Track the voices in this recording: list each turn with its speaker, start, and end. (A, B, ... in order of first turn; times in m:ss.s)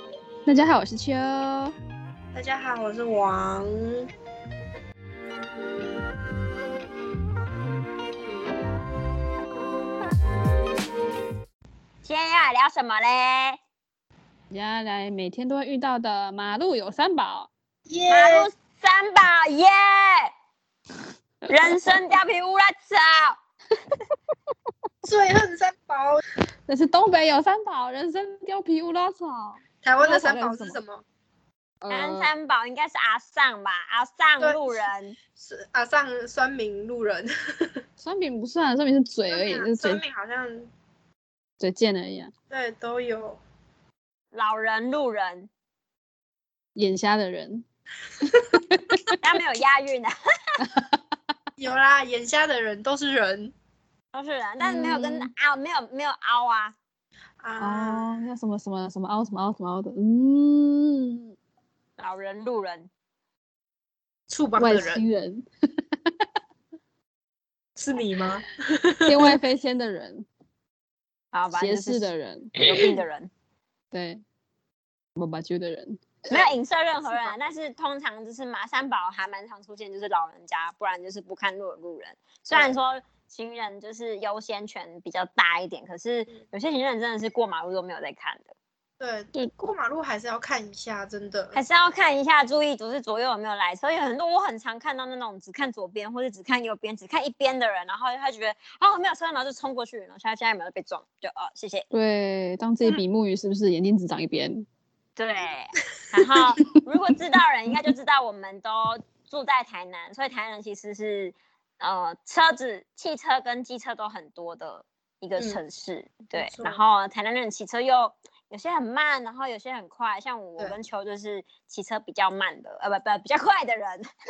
0:00.5-0:01.7 A
0:02.3-0:04.1 B
0:12.0-0:13.6 C
0:14.5-0:17.5 A
0:17.9-0:18.5 B
0:18.1-0:20.3 C
0:21.5-0:22.0 A
0:21.5-0:23.4 C
0:25.0-0:26.2 B
0:26.7-0:30.8 A
0:29.8-0:31.0 B
0:31.8-0:32.3 A
0:31.9-0:35.2 C
0:34.4-0:34.8 B
0:35.4-0:37.8 B
0:38.0-0:40.0 A
0:39.3-0:40.7 B
0:41.6-0:42.3 A
0:42.5-0:43.4 B
0:44.3-0:45.5 C
0:46.8-0:47.6 A
0:48.6-0:49.1 A
0:49.2-0:50.6 C
0:50.6-0:50.9 A
0:51.6-0:53.5 B
0:54.1-0:56.8 C
0:54.6-0:55.3 A
0:57.4-0:58.0 B
0:57.6-1:01.3 A
1:02.0-1:02.9 C
1:04.3-1:05.0 B
1:04.6-1:05.5 A
1:07.8-1:09.4 B
1:09.1-1:10.3 A
1:11.3-1:13.3 C
1:11.5-1:12.6 A
1:13.9-1:14.2 A
1:15.2-1:16.1 A
1:16.3-1:28.5 C
1:22.5-1:22.8 B
1:29.0-1:31.6 B
1:31.5-1:41.9 C
1:41.9-1:44.7 A
1:45.2-2:04.1 C
1:56.4-1:56.8 B